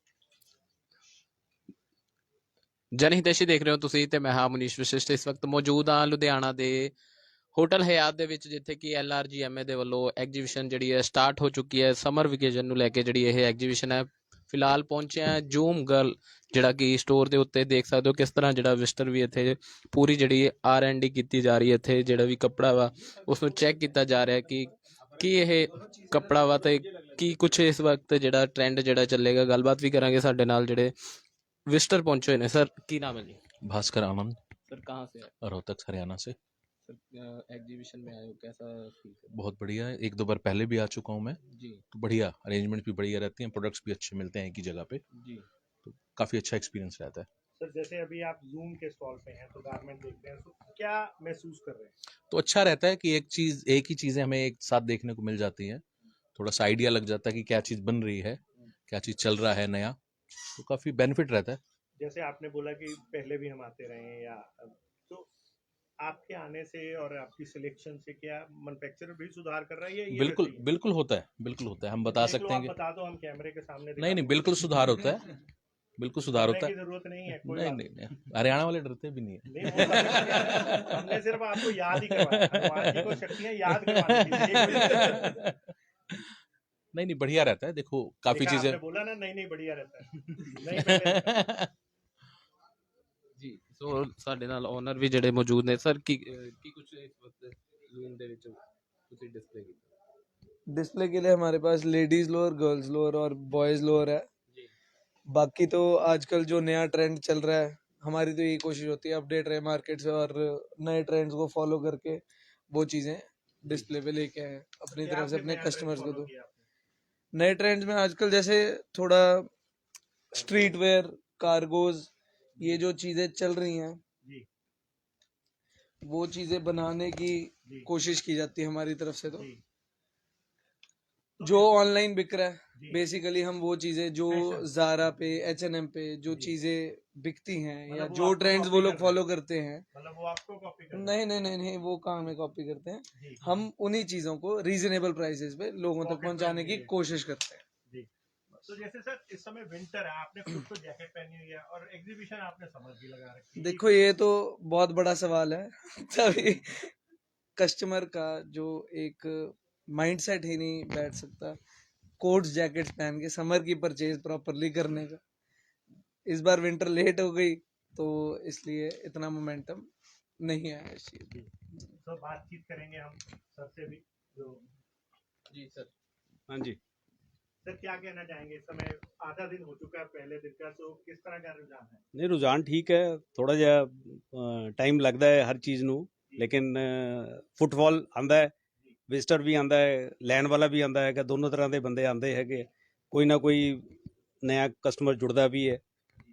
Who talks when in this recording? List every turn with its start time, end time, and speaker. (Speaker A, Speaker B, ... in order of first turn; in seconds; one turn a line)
Speaker A: 2.9-6.9
Speaker A: 7.5-30.9
Speaker A: 31.7-33.4
Speaker B: 33.6-34.4
Speaker A: 34.7-35.3
Speaker B: 35.4-36.4
Speaker A: 36.8-39.4
Speaker B: 39.3-41.4
Speaker A: 41.5-41.8
Speaker B: 41.9-45.0
Speaker A: 45.1-45.5
Speaker B: 45.8-47.2
Speaker C: 47.6-51.9
Speaker B: 52.3-55.8
Speaker B: 56.4-60.0
Speaker B: 60.5-62.1
Speaker C: 62.1-65.2
Speaker C: 66.0-70.5
Speaker B: 69.6-75.4
Speaker C: 72.1-72.7
Speaker C: 73.2-74.5
Speaker B: 76.0-86.3
Speaker C: 76.3-76.7
Speaker C: 77.3-77.7
Speaker C: 79.7-82.6
Speaker C: 83.4-85.2
Speaker B: 86.9-88.8
Speaker C: 88.3-90.1
Speaker B: 90.5-91.7
Speaker C: 90.7-91.2
Speaker A: 93.3-99.9
Speaker D: 100.7-104.3
Speaker D: 105.3-116.3
Speaker B: 115.0-116.6
Speaker C: 115.2-116.3
Speaker D: 117.3-119.5
Speaker D: 120.3-124.0
Speaker D: 126.0-129.5
Speaker C: 131.4-131.7
Speaker D: 131.4-139.8
Speaker C: 137.9-139.2
Speaker B: 139.9-141.0
Speaker C: 140.1-141.2
Speaker D: 140.9-147.6
Speaker C: 143.2-143.6
Speaker C: 146.0-146.9
Speaker C: 148.8-154.0
Speaker D: 153.6-156.9
Speaker D: 157.6-161.6
Speaker D: 162.2-165.2
Speaker D: 166.3-169.9
Speaker D: 170.4-171.4
Speaker C: 172.0-174.6
Speaker A: 175.5-175.9
Speaker E: 176.5-176.8
Speaker C: 177.6-182.0
Speaker E: 182.1-188.5
Speaker E: 189.1-195.8